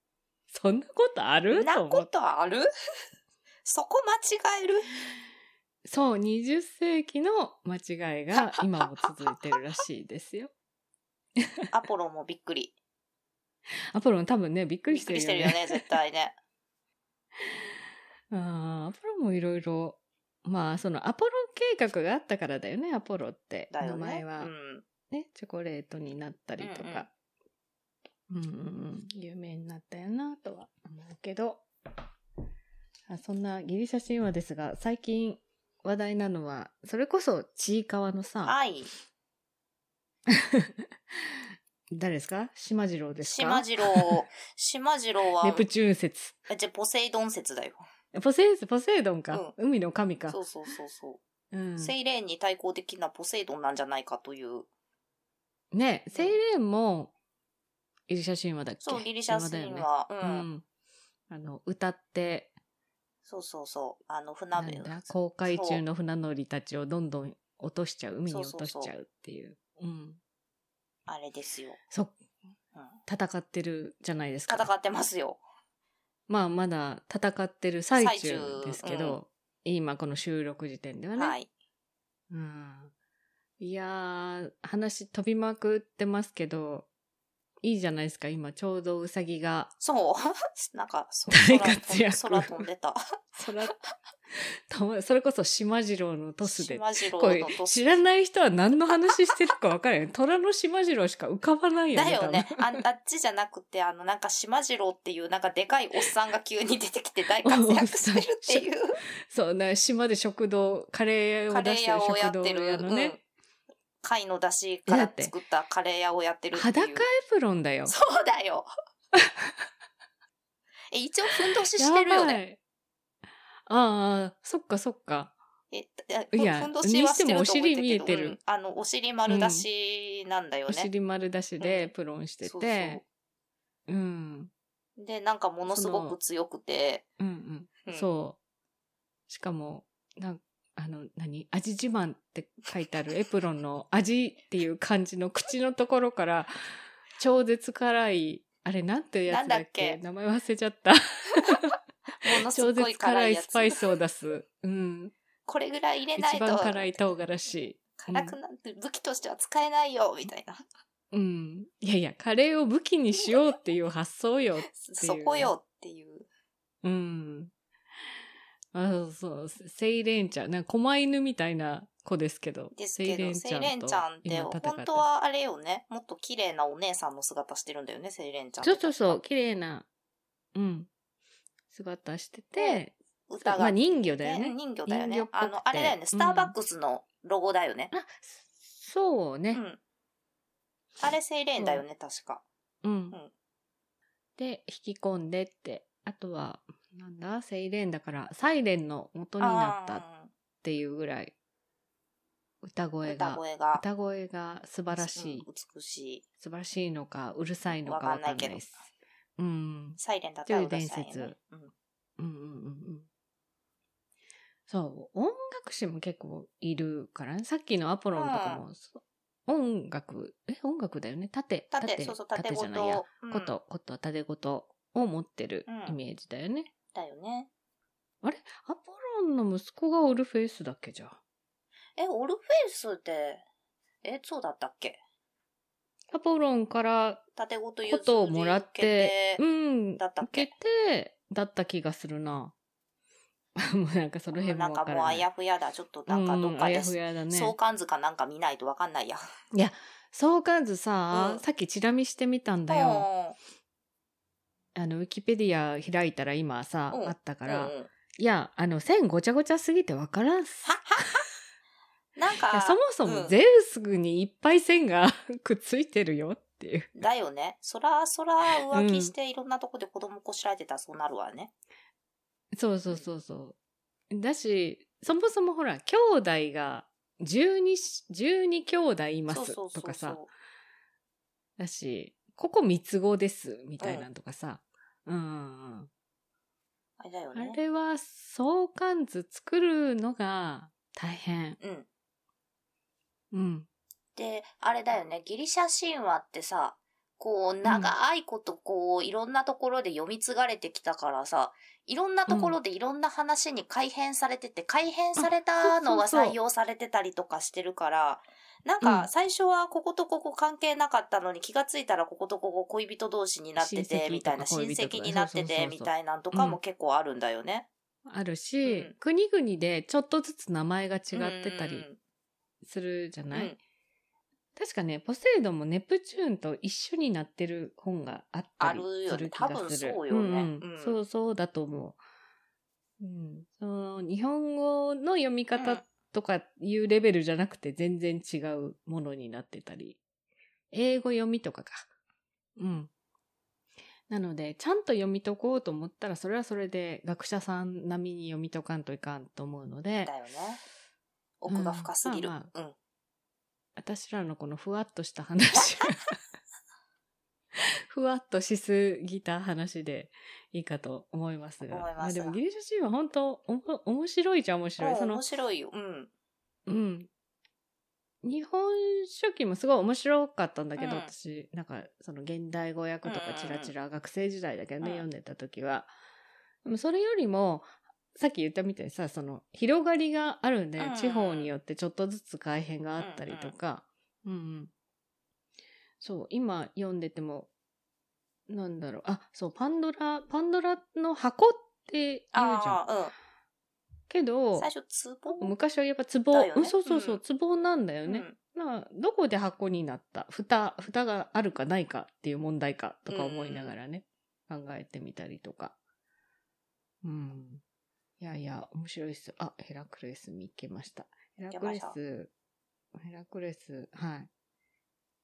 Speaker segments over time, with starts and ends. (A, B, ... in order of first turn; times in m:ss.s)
0:00.5-0:02.1 A
0:01.5-0:02.7 B
0:03.6-0:04.9 B
0:05.8-0:10.5 A
0:08.3-0:09.1 B
0:11.4-0:11.7 A
0:11.7-0:12.7 B
0:13.9-0:15.8 A
0:14.9-0:16.4 B
0:17.4-0:17.7 A
0:18.3-0:24.5 A
0:23.7-0:24.8 B
0:25.1-0:27.1 A
0:26.6-0:27.1 B
0:28.3-0:31.6 A
0:33.1-0:38.6 A
0:38.4-0:38.9 B
0:40.3-0:44.2 A
0:43.2-0:45.7 B
0:45.4-0:46.4 A
0:46.5-0:47.8 B
0:48.1-0:50.4 A
0:50.3-0:51.2 B
0:51.5-0:51.9 A
0:51.8-0:54.7 B
0:55.7-0:57.1 A
0:58.1-1:00.6 A
0:58.8-1:00.4 B
1:01.3-1:02.5 A
1:03.2-1:05.8 B
1:04.5-1:10.2 A
1:08.3-1:08.9 B
1:11.1-1:11.8 B
1:13.1-1:14.7 A
1:14.5-1:15.4 B
1:16.3-1:21.4 A
1:18.0-1:19.2 B
1:21.2-1:21.5 B
1:22.3-1:22.9 A
1:23.6-1:26.9 A
1:27.6-1:29.7 A
1:29.8-1:33.0 B
1:31.3-1:32.6 A
1:33.4-1:33.7 A
1:34.3-1:42.7 A
1:36.4-1:38.0 B
1:41.9-1:49.0 B
1:47.4-1:48.7 A
1:49.2-1:53.2 A
1:51.5-1:53.2 B
1:54.0-1:57.1 B
1:54.9-1:55.3 A
1:56.5-1:57.9 A
1:57.8-1:58.7 B
1:59.1-1:59.5 A
2:00.9-2:02.4 B
2:01.8-2:02.6 A
2:03.7-2:05.3 A
2:05.7-2:10.9 B
2:06.3-2:08.4 A
2:09.3-2:09.6 A
2:10.7-2:13.0 A
2:11.6-2:11.9 B
2:12.4-2:13.0 B
2:13.9-2:14.5 A
2:15.0-2:17.0 B
2:15.7-2:16.2 A
2:17.2-2:18.4 A
2:19.3-2:31.7 A
2:29.3-2:30.0 B
2:32.2-2:33.8 B
2:32.3-2:35.1 A
2:35.4-2:36.9 B
2:36.2-2:38.4 A
2:38.0-2:40.6 B
2:41.1-2:45.5 A
2:44.7-2:46.3 B
2:46.8-2:47.5 A
2:48.7-2:55.0 A
2:52.7-2:59.2 B
2:58.6-2:59.9 A
3:00.5-3:00.9 A
3:01.7-3:06.5 A
3:02.6-3:07.9 B
3:07.9-3:09.6 A
3:09.5-3:09.8 B
3:11.0-3:12.4 B
3:11.6-3:11.8 A
3:12.8-3:13.2 A
3:14.4-3:20.0 A
3:19.4-3:20.3 B
3:20.6-3:21.3 A
3:22.6-3:25.5 A
3:23.0-3:23.8 B
3:24.9-3:26.2 B
3:26.4-3:28.8 A
3:27.8-3:28.6 B
3:29.4-3:31.4 A
3:30.0-3:31.7 B
3:32.2-3:33.1 A
3:34.7-3:46.7 A
3:38.1-3:38.6 B
3:41.7-3:43.5 B
3:45.7-3:46.0 B
3:46.9-3:47.5 B
3:48.2-3:51.2 A
3:52.0-3:53.4 B
3:54.0-3:55.0 B
3:56.1-3:57.2 A
3:57.4-3:59.4 B
3:57.8-4:02.5 A
4:00.0-4:00.5 B
4:03.6-4:05.2 A
4:04.3-4:09.2 B
4:06.1-4:07.5 A
4:09.5-4:13.1 A
4:11.1-4:11.4 B
4:12.7-4:13.4 B
4:14.7-4:21.1 A
4:16.9-4:17.9 B
4:20.6-4:21.2 B
4:22.2-4:23.3 B
4:22.5-4:26.9 A
4:27.0-4:31.5 B
4:28.7-4:29.1 A
4:32.5-4:33.6 A
4:34.1-4:40.2 A
4:39.3-4:40.3 B
4:41.6-4:45.9 A
4:43.8-4:44.1 B
4:47.0-4:47.6 B
4:47.3-4:51.6 A
4:51.6-4:51.9 B
4:53.3-4:53.7 A
4:54.2-5:17.7 B
4:57.6-4:57.9 A
5:02.3-5:02.6 A
5:05.2-5:06.4 A
5:08.8-5:09.1 A
5:13.6-5:16.6 A
5:18.1-5:21.8 A
5:18.6-5:18.9 B
5:21.1-5:22.0 B
5:22.6-5:23.5 A
5:23.3-5:23.6 B
5:24.6-5:32.0 A
5:28.6-5:31.0 B
5:33.0-5:40.0 A
5:35.5-5:35.8 B
5:40.7-5:41.9 A
5:42.6-5:42.9 A
5:44.1-5:50.1 A
5:50.0-5:50.6 B
5:51.4-5:52.7 B
5:51.5-5:52.5 A
5:53.8-5:56.2 A
5:57.5-6:05.2 A
6:01.6-6:02.4 B
6:04.8-6:06.1 B
6:06.7-6:07.1 A
6:08.2-6:15.9 A
6:10.8-6:11.1 B
6:13.0-6:13.7 B
6:14.8-6:15.0 B
6:16.6-6:24.7 A
6:20.8-6:21.5 B
6:23.0-6:23.5 B
6:26.0-6:27.5 A
6:28.5-6:32.8 A
6:32.3-6:33.1 B
6:34.1-6:34.7 A
6:34.5-6:35.5 B
6:35.4-6:45.8 A
6:36.3-6:37.2 B
6:38.0-6:38.4 B
6:43.1-6:43.7 B
6:47.0-6:47.6 A
6:48.2-6:52.3 A
6:51.5-6:52.0 B
6:52.9-6:54.3 A